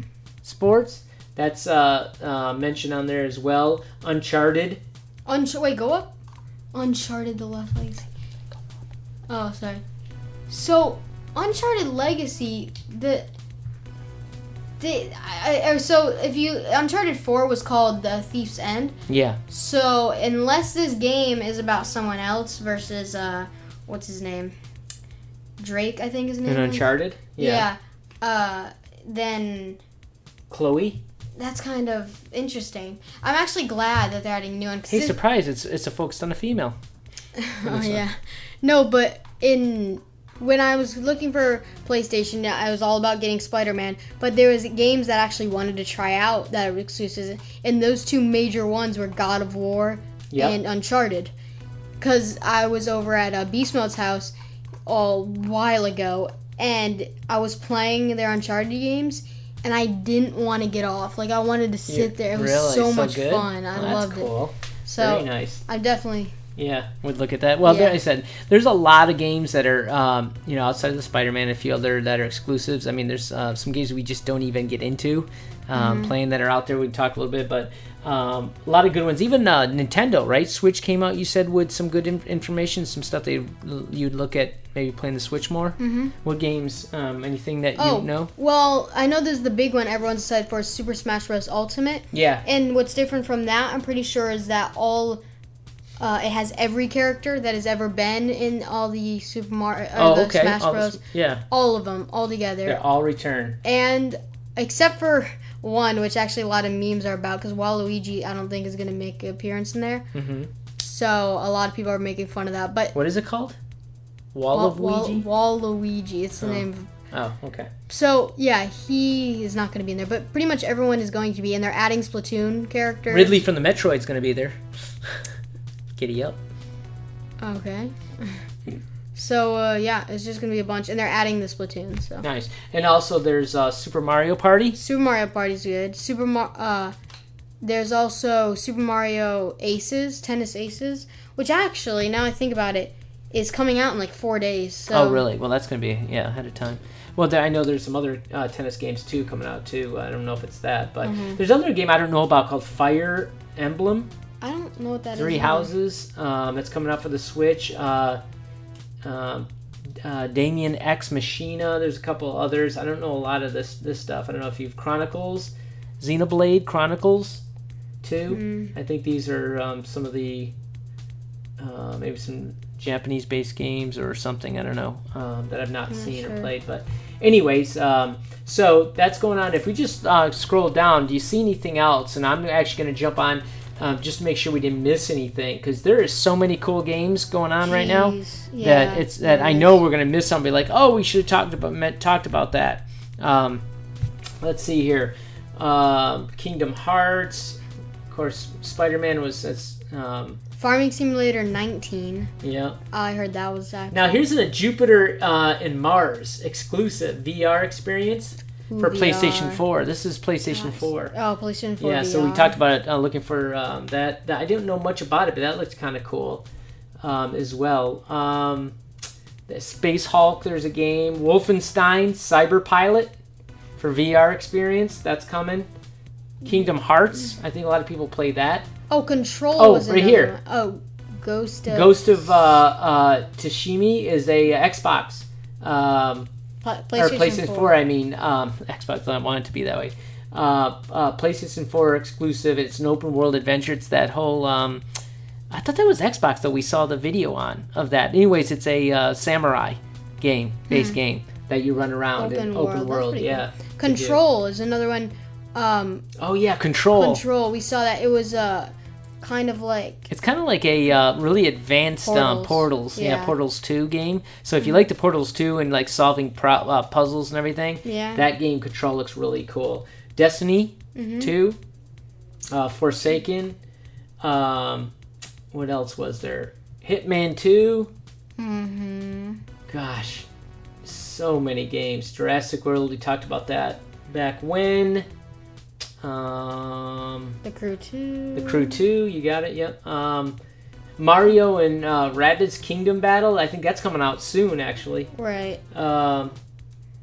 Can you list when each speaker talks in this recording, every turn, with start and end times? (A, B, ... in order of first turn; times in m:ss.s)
0:00.4-0:04.8 A
0:05.3-0:06.1 B
0:06.7-0:08.1 B
0:09.3-0:09.8 B
0:10.5-0:13.3 B
0:14.8-0:19.0 B
0:19.1-0:19.4 A
0:19.5-0:24.6 B
0:25.6-0:29.8 B
0:26.4-0:27.7 A
0:30.5-0:31.0 A
0:31.4-0:35.2 B
0:34.9-0:36.8 A
0:37.4-0:51.3 B
0:37.6-0:38.0 A
0:50.3-0:50.6 A
0:52.0-0:54.3 B
0:54.9-1:04.3 B
1:01.9-1:05.6 A
1:04.8-1:06.4 B
1:06.6-1:28.3 A
1:07.6-1:08.0 B
1:15.7-1:16.1 B
1:25.8-1:26.1 B
1:27.8-1:35.2 B
1:32.1-1:32.4 A
1:36.0-1:42.8 B
1:40.0-1:41.4 A
1:42.7-1:43.6 A
1:43.6-1:50.1 B
1:50.1-1:50.5 A
1:50.8-1:53.0 B
1:52.9-1:53.6 A
1:54.3-1:55.2 A
1:54.5-1:56.9 B
1:56.4-1:57.7 A
1:57.9-2:03.3 B
2:03.1-2:05.3 A
2:06.0-2:06.4 A
2:07.4-2:08.4 B
2:09.2-2:12.3 B
2:12.2-2:14.8 A
2:14.8-2:16.9 B
2:17.6-2:25.2 B
2:24.9-2:34.1 A
2:31.0-2:31.4 B
2:34.4-2:35.7 B
2:35.2-2:38.2 A
2:39.0-2:39.5 A
2:40.0-2:47.4 A
2:48.0-2:50.5 A
2:48.3-2:48.7 B
2:51.6-3:13.6 A
2:55.9-2:56.5 B
3:07.7-3:09.8 B
3:14.4-3:20.4 A
3:20.6-3:22.3 B
3:22.4-3:22.8 A
3:22.9-3:24.2 B
3:23.9-3:31.1 A
3:28.7-3:29.6 B
3:30.5-3:32.6 B
3:31.8-3:36.4 A
3:37.0-3:38.8 A
3:39.5-3:43.2 A
3:43.8-3:45.7 A
3:46.4-3:48.7 A
3:48.9-3:51.9 B
3:49.6-3:50.3 A
3:51.7-3:56.3 A
3:56.6-3:57.7 B
3:57.0-4:04.8 A
4:05.5-4:14.2 A
4:10.7-4:11.0 B
4:12.2-4:16.0 B
4:16.2-4:17.2 A
4:17.0-4:20.1 B
4:20.1-4:31.6 A
4:22.0-4:23.3 B
4:27.8-4:28.2 B
4:31.0-4:31.3 B
4:32.5-4:33.6 A
4:34.2-4:34.9 A
4:35.5-4:37.9 A
4:38.4-4:39.4 B
4:39.7-4:40.3 A
4:40.8-4:45.1 A
4:46.0-4:47.4 A
4:47.4-4:48.8 B
4:48.4-4:50.4 A
4:51.0-4:55.1 A
4:55.2-4:55.6 B
4:55.7-4:56.4 A